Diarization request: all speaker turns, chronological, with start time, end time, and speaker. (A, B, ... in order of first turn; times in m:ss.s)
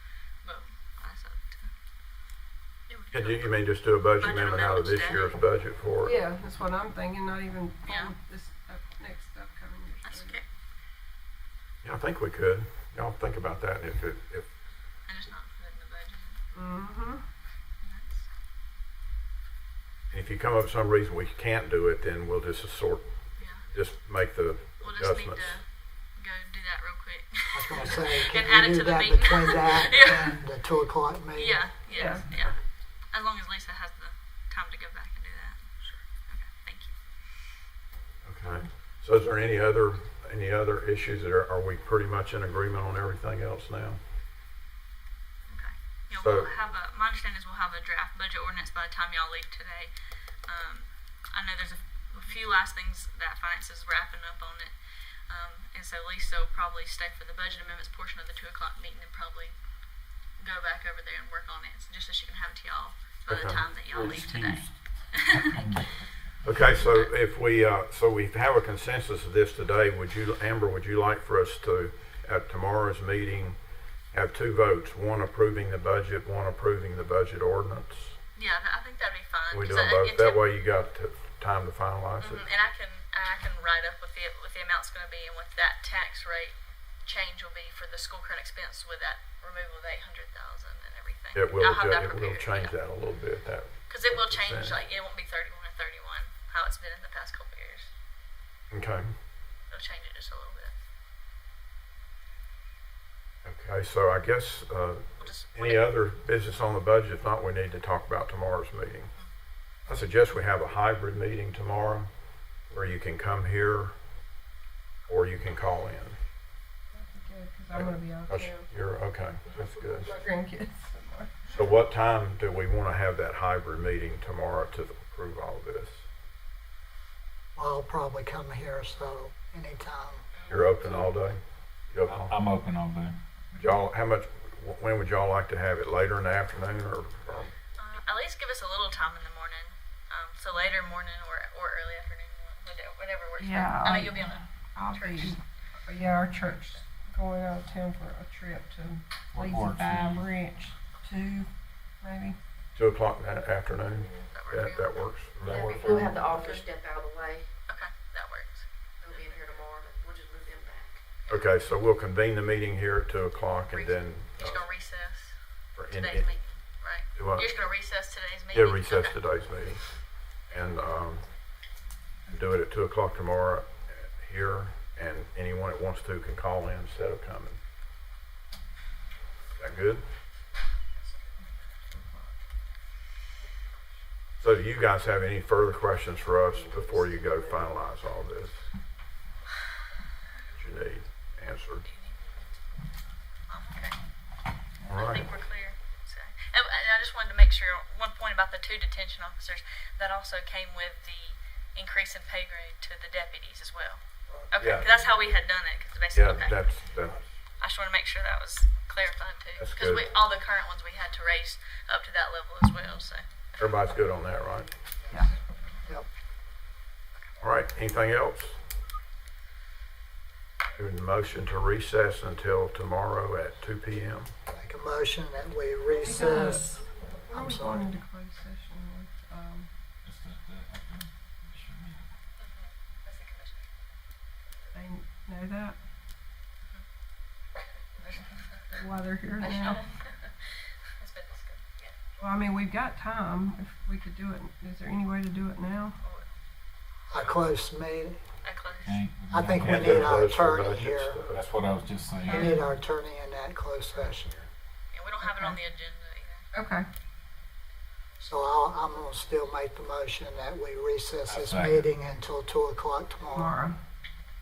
0:00.4-0:01.7 A
0:02.9-0:03.6 A
0:03.1-0:06.2 B
0:04.2-0:05.3 A
0:06.0-0:10.4 C
0:07.8-0:08.1 A
0:10.0-0:10.4 A
0:11.8-0:14.5 B
0:15.0-0:16.4 A
0:16.5-0:17.2 C
0:17.8-0:18.2 A
0:20.1-0:23.0 B
0:23.4-0:23.6 A
0:23.6-0:25.6 B
0:24.8-0:30.4 A
0:27.5-0:31.7 D
0:31.3-0:32.6 A
0:31.9-0:32.3 C
0:33.1-0:35.7 A
0:36.2-0:37.0 A
0:38.2-0:44.0 B
0:45.5-0:49.9 A
0:46.1-0:46.5 B
0:50.4-0:54.7 A
0:55.3-0:59.6 A
1:00.4-1:05.6 A
1:03.3-1:03.6 B
1:03.8-1:04.7 E
1:05.3-1:05.8 E
1:06.4-1:13.6 B
1:06.8-1:07.1 A
1:14.1-1:18.2 B
1:18.3-1:20.4 A
1:19.5-1:22.5 B
1:22.2-1:32.8 A
1:31.3-1:34.8 B
1:33.9-1:37.9 A
1:38.7-1:39.1 B
1:39.7-1:40.8 A
1:43.4-1:49.1 B
1:45.2-1:45.8 A
1:49.9-1:52.1 B
1:52.7-1:53.9 B
1:55.1-1:56.2 B
1:56.9-1:58.6 C
1:57.7-2:00.2 B
1:59.9-2:01.5 C
2:01.5-2:06.0 B
2:07.6-2:10.3 D
2:10.5-2:12.3 B
2:12.0-2:13.2 E
2:13.6-2:17.5 B
2:17.8-2:25.4 A
2:23.4-2:31.5 C
2:29.3-2:30.3 E
2:32.0-2:32.4 C
2:32.8-2:35.3 B
2:34.3-2:35.0 A
2:35.4-2:36.2 E
2:35.4-2:37.4 F
2:35.8-2:36.6 A
2:37.7-2:39.5 A
2:39.0-2:41.0 F
2:41.3-2:44.6 B
2:43.7-2:45.4 A
2:45.8-2:46.3 B
2:45.9-2:49.2 A
2:47.1-2:47.5 B
2:48.5-2:49.8 B
2:50.5-2:51.2 B
2:52.3-2:57.6 B
2:59.6-3:00.0 B
3:01.9-3:02.3 C
3:04.4-3:08.6 B
3:06.7-3:07.5 F
3:10.5-3:11.8 B
3:11.8-3:12.2 A
3:13.5-3:14.0 A
3:14.8-3:15.3 B
3:14.9-3:26.6 A
3:24.6-3:25.0 E
3:26.1-3:27.2 B
3:27.6-3:33.2 A
3:29.6-3:30.1 B
3:33.6-3:34.7 B
3:37.4-3:38.6 B
3:40.8-3:44.3 B
3:44.5-3:47.9 D
3:46.0-3:49.7 C
3:50.0-3:52.0 E
3:52.4-3:53.7 A
3:54.7-3:55.8 C
3:58.0-3:58.6 A
3:58.7-3:59.8 C
3:59.4-4:00.3 A
4:01.0-4:02.0 A
4:02.2-4:06.0 C
4:06.0-4:06.3 A
4:07.1-4:08.2 D
4:08.4-4:09.0 A
4:08.8-4:10.2 E
4:09.3-4:11.2 D
4:09.6-4:11.4 B
4:11.3-4:12.6 E
4:12.2-4:12.6 C
4:12.3-4:14.4 D
4:14.9-4:16.4 A
4:15.2-4:15.6 C
4:16.5-4:16.9 C
4:18.2-4:23.5 D
4:21.3-4:21.9 E
4:23.3-4:23.8 C